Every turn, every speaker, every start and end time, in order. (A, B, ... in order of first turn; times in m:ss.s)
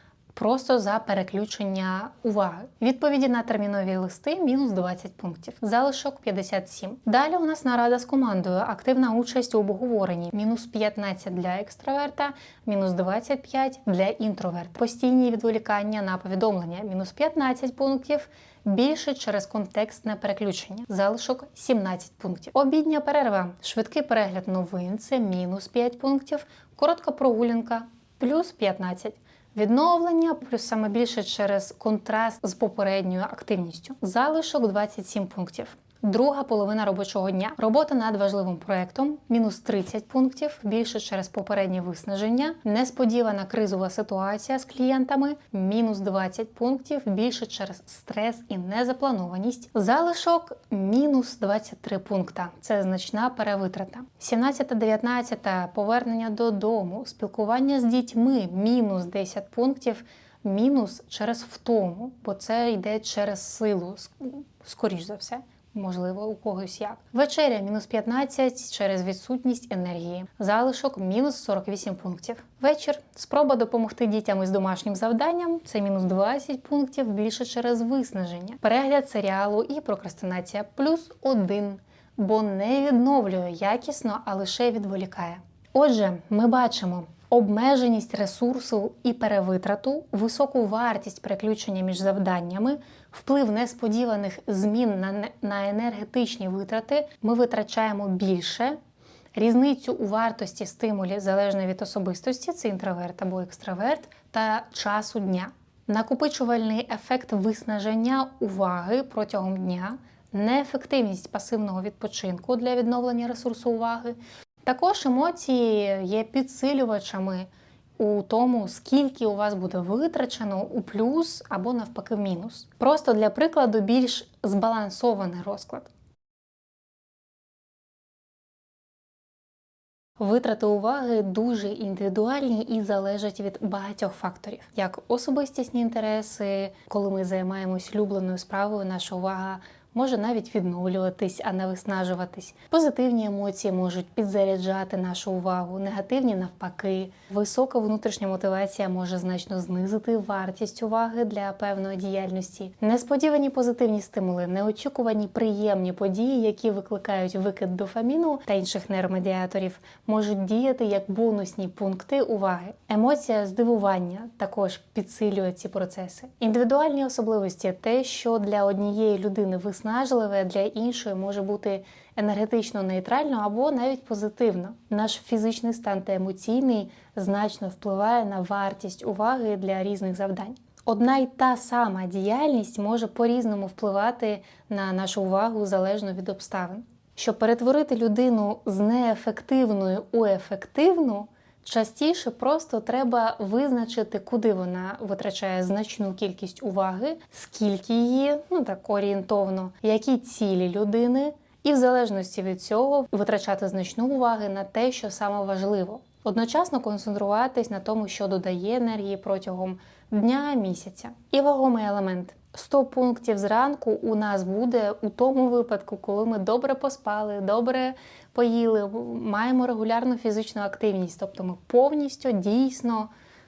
0:00.3-1:38.8 A
1:39.3-2:05.9 A
2:10.2-3:43.1 A